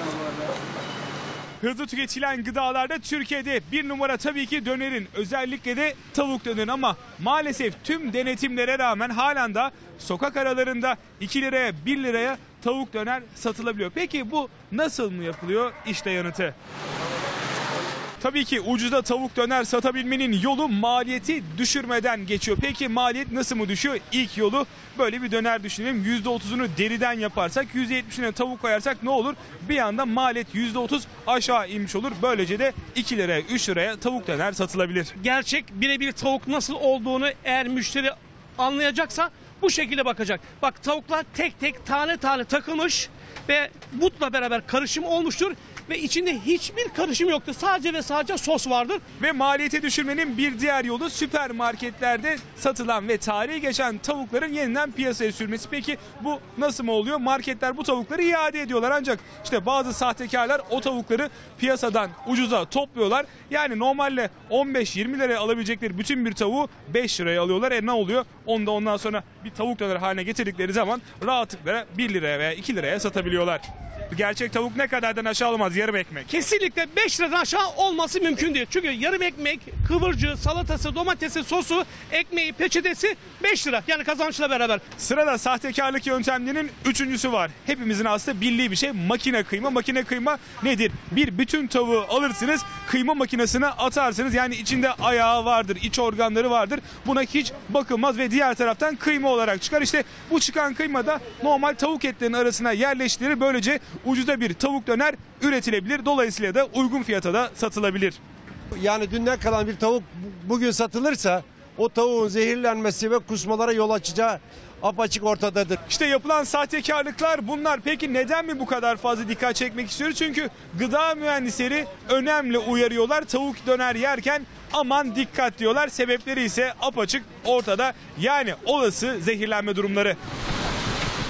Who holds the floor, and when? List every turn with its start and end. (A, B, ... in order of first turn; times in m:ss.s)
0:01.6-0:16.6 A
0:18.2-0:35.1 A
0:35.2-0:49.0 B
0:49.2-1:16.3 A
1:16.3-1:24.8 B
1:25.0-1:48.2 A
1:48.8-1:55.8 C
1:55.9-2:10.2 A